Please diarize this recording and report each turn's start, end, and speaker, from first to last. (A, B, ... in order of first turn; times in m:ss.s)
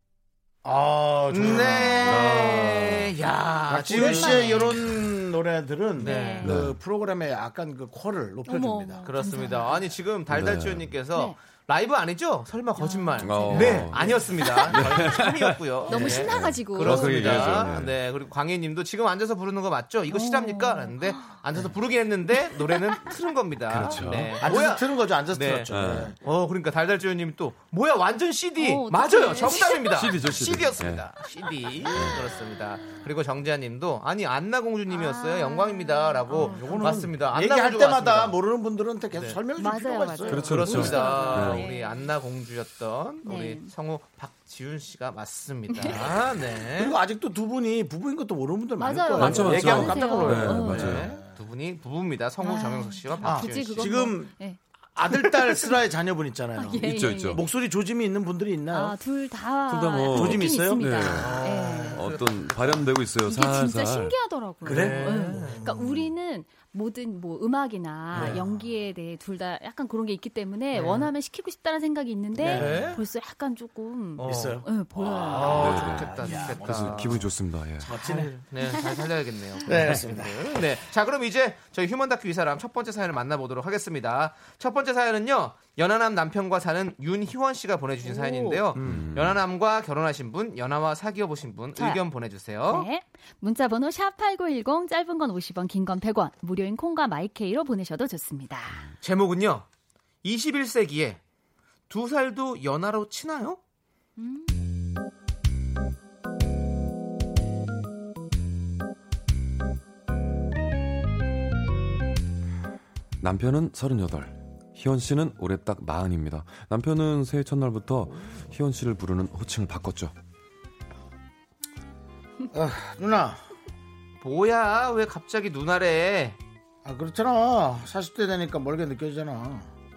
0:00.6-0:02.5 A
0:01.3-0:04.8 B
0:01.4-0:03.1 C
0:03.7-0:09.1 A
0:03.8-0:04.8 D
0:06.0-0:06.5 B
0:06.0-0:06.6 D
0:06.4-0:06.8 C
0:08.4-0:09.9 D
0:09.0-0:38.4 B
0:10.3-0:11.0 C
0:12.8-0:14.8 D
0:13.2-0:18.0 C
0:15.8-0:17.7 D
0:20.1-0:21.3 D
0:22.5-0:23.1 D
0:23.7-0:24.4 C
0:24.4-0:26.2 A
0:25.7-0:26.1 C
0:28.6-0:30.0 D
0:29.8-0:31.1 C
0:31.9-0:32.2 C
0:34.9-0:37.0 D
0:36.3-0:41.2 A
0:39.1-0:39.4 B
0:39.6-0:42.1 D
0:40.3-0:41.6 C
0:40.4-0:47.0 B
0:43.2-0:43.7 D
0:45.7-0:46.1 D
0:46.8-0:51.1 A
0:48.8-0:51.1 D
0:49.1-0:51.1 C
0:49.3-0:54.1 B
0:52.4-0:55.8 D
0:53.2-0:54.3 A
0:54.9-0:59.0 A
0:56.6-0:57.4 D
0:56.8-0:57.4 C
0:58.7-1:02.0 D
0:59.7-1:04.2 C
1:00.1-1:01.8 A
1:01.1-1:02.8 B
1:03.2-1:15.8 D
1:04.6-1:05.6 B
1:04.6-1:06.0 A
1:08.1-1:08.7 A
1:08.1-1:08.4 B
1:10.7-1:11.1 B
1:12.4-1:13.0 A
1:12.4-1:13.0 B
1:14.2-1:14.6 B
1:14.2-1:18.3 A
1:15.2-1:17.2 B
1:15.5-1:17.9 C
1:17.9-1:32.9 B
1:19.6-1:20.6 A
1:28.0-1:28.6 D
1:28.7-1:29.1 A
1:28.8-1:29.4 C
1:31.8-1:32.0 D
1:32.7-1:38.9 D
1:39.0-1:39.6 B
1:40.2-1:41.2 B
1:41.9-1:43.6 B
1:44.2-1:44.6 D
1:53.2-2:00.1 C
2:02.5-2:03.4 A
2:04.2-2:06.4 B
2:06.8-2:09.7 A